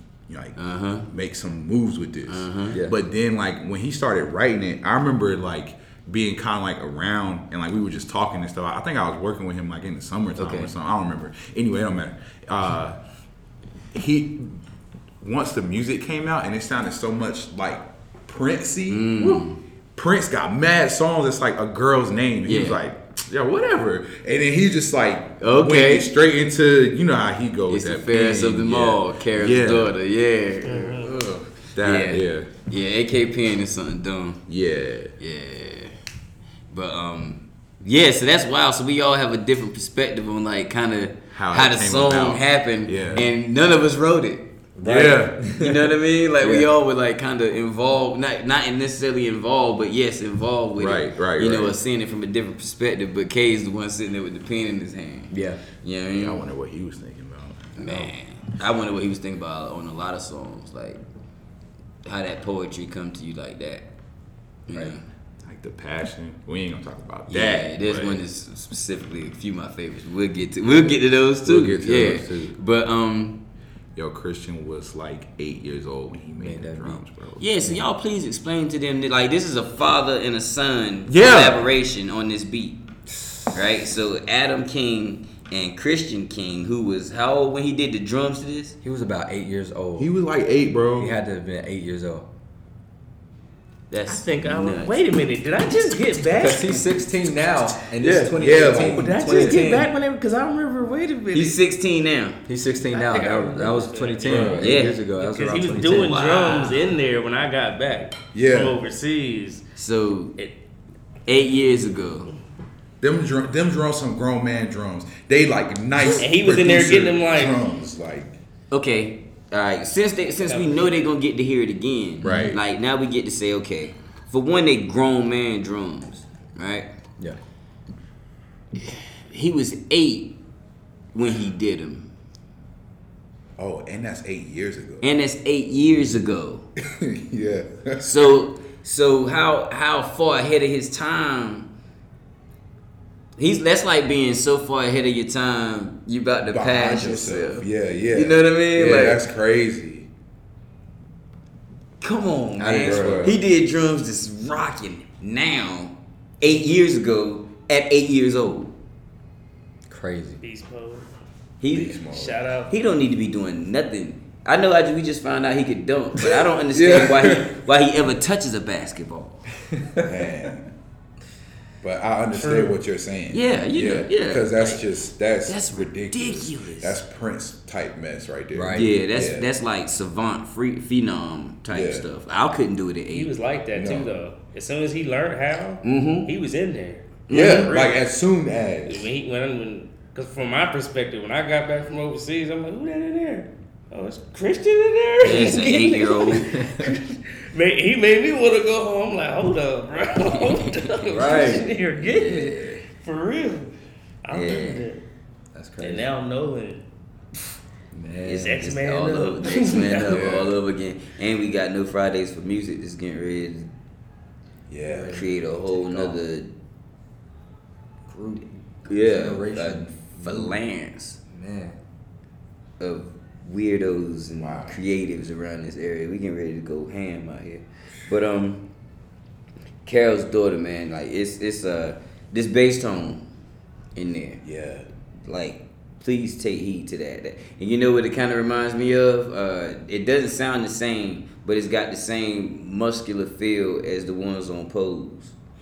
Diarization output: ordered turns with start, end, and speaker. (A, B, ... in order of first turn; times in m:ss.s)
0:00.3-0:13.0 A
0:00.6-0:01.1 B
0:02.3-0:02.8 B
0:02.7-0:03.0 C
0:10.4-0:10.7 B
0:13.9-0:14.6 A
0:15.2-0:30.0 A
0:18.9-0:19.6 B
0:22.4-0:22.8 B
0:25.4-0:26.1 B
0:27.7-0:34.4 B
0:30.6-0:31.2 D
0:31.8-0:32.5 A
0:34.5-0:35.1 A
0:35.2-0:36.0 B
0:36.7-0:44.5 B
0:41.3-0:43.3 A
0:44.8-0:46.7 C
0:44.8-0:45.4 A
0:45.1-0:56.5 B
0:50.8-0:51.8 A
0:55.3-0:55.6 C
0:56.1-0:58.1 A
0:57.8-1:01.0 B
1:02.0-1:03.9 B
1:04.7-1:05.0 B
1:04.7-1:05.0 C
1:05.4-1:08.2 A
1:07.3-1:13.4 B
1:11.4-1:12.6 A
1:13.9-1:17.5 A
1:16.4-1:17.0 C
1:17.4-1:22.8 B
1:17.6-1:17.9 C
1:21.1-1:21.7 A
1:23.5-1:28.8 B
1:28.8-1:30.1 C
1:30.0-1:31.1 A
1:31.0-1:32.3 C
1:33.9-1:35.0 B
1:34.1-1:36.9 D
1:36.3-1:39.6 C
1:38.0-1:39.9 B
1:38.4-1:39.1 A
1:38.8-1:41.6 D
1:41.3-1:42.4 B
1:42.5-1:46.2 C
1:42.8-1:49.6 D
1:44.3-1:44.6 A
1:44.3-1:45.0 B
1:46.0-1:46.9 B
1:48.3-1:48.8 A
1:49.8-1:50.4 B
1:51.3-1:52.3 B
1:53.0-1:58.4 A
1:56.2-1:57.7 D
1:58.7-2:06.9 B
2:00.4-2:01.0 D
2:02.2-2:02.6 A
2:02.2-2:02.6 C
2:08.8-2:10.4 B
2:11.1-2:12.1 B
2:13.6-2:15.0 A
2:15.0-2:16.7 B
2:16.9-2:18.3 A
2:18.0-2:21.7 B
2:23.4-2:29.2 B
2:26.4-2:30.1 A
2:32.0-2:38.7 B
2:32.6-2:33.4 C
2:32.8-2:33.4 A
2:39.9-2:40.4 C
2:40.4-2:41.1 D
2:41.6-2:42.0 B
2:41.7-2:42.4 A
2:42.0-2:42.7 D
2:42.7-2:49.4 B
2:46.7-2:47.5 A
2:49.7-2:50.2 C
2:50.0-2:50.7 A
2:51.8-2:59.5 A
2:52.3-2:52.8 D
2:53.3-2:54.8 B
2:55.4-2:57.0 B
2:58.5-2:58.9 C
2:58.7-3:03.3 B
3:01.7-3:02.1 A
3:03.1-3:08.0 D
3:03.7-3:04.2 A
3:05.8-3:06.3 B
3:07.3-3:07.8 B
3:07.3-3:09.1 A
3:08.9-3:23.7 D
3:15.2-3:16.5 B
3:16.5-3:16.9 C
3:20.2-3:20.9 B
3:21.1-3:21.7 C
3:22.0-3:22.8 B
3:24.2-3:25.0 D
3:24.3-3:24.9 B
3:25.5-3:26.1 C
3:25.8-3:26.8 D
3:27.9-3:28.5 C
3:28.2-3:33.7 B
3:28.4-3:30.2 D
3:30.1-3:30.6 A
3:34.7-3:35.2 A
3:34.8-3:36.2 C
3:35.1-3:36.5 B
3:38.1-3:40.6 C
3:38.8-3:41.2 B
3:41.3-3:41.8 C
3:42.8-3:48.7 B
3:44.4-3:44.8 A
3:49.8-3:53.3 B
3:53.9-3:54.4 B
3:54.4-3:54.9 A
3:55.2-4:05.4 B